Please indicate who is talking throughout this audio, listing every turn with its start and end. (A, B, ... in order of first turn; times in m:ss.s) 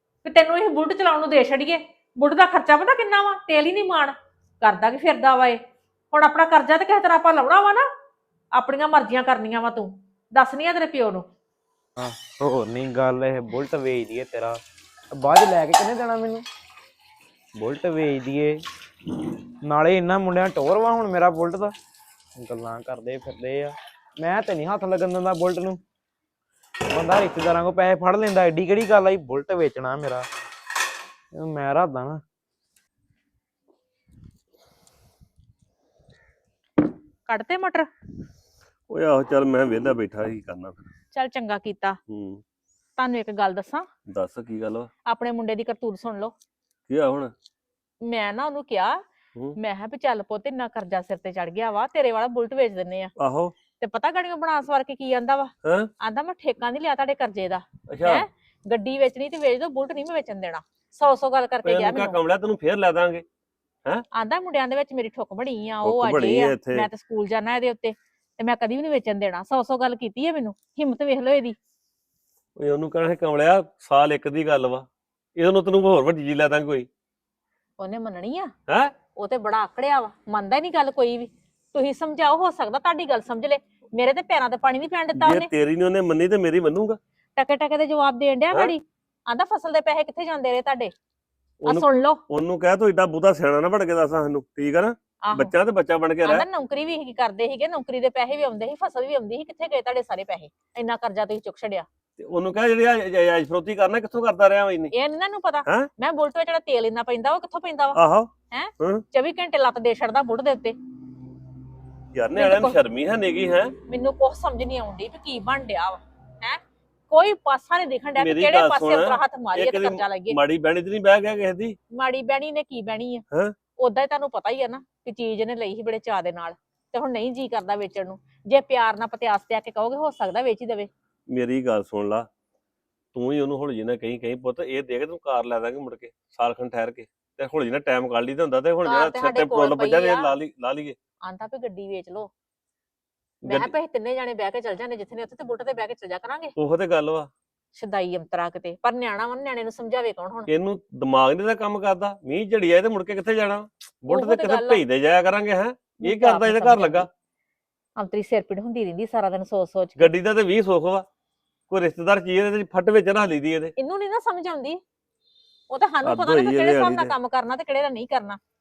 0:00.2-0:05.6 A
0:06.1-0:07.8 A
0:08.5-0:11.3 A
0:12.0-0:14.6 B
0:15.1-0:16.4 B
0:17.6-0:18.6 B
0:19.6-0:21.7 B
0:22.4-0:25.8 B
0:26.9-0:30.3 B
0:31.3-0:32.2 B
0:37.3-0:37.9 A
0:38.9-0:40.8 C
0:41.1-0:42.0 A
0:42.1-0:42.4 C
0:43.0-0:43.9 A
0:44.1-0:44.9 C
0:45.0-0:46.3 A
0:46.9-0:47.3 C
0:48.0-0:49.0 A
0:49.6-0:53.1 A
0:53.2-0:53.5 C
0:53.7-1:02.2 A
0:55.6-0:55.9 C
0:57.9-0:58.2 C
1:01.6-1:03.2 C
1:04.1-1:11.6 A
1:05.8-1:06.9 C
1:12.6-1:16.9 C
1:17.8-1:18.5 A
1:18.7-1:19.0 C
1:19.1-1:25.5 A
1:25.1-1:27.0 C
1:27.4-1:30.9 A
1:31.6-1:36.5 C
1:31.6-1:32.2 A
1:35.2-1:35.5 A
1:36.2-1:41.9 A
1:42.2-1:44.9 C
1:44.9-1:48.0 A
1:47.9-1:49.0 C
1:48.5-1:50.8 A
1:52.1-1:53.8 C
1:52.3-1:52.8 A
1:53.8-2:00.4 A
1:58.2-2:01.8 C
2:01.9-2:03.2 A
2:03.3-2:03.6 C
2:03.8-2:10.9 A
2:11.3-2:12.3 C
2:13.1-2:21.0 C
2:18.8-2:20.3 A
2:21.2-2:22.3 A
2:23.4-2:26.5 A
2:23.4-2:23.7 C
2:26.6-2:27.3 C
2:27.7-2:30.5 A
2:30.5-2:37.1 C
2:34.1-2:34.8 A
2:36.0-2:37.1 A
2:38.0-2:40.1 A
2:40.0-2:41.0 C
2:41.7-2:43.7 C
2:43.8-2:44.8 A
2:45.7-2:48.4 A
2:46.0-2:47.1 C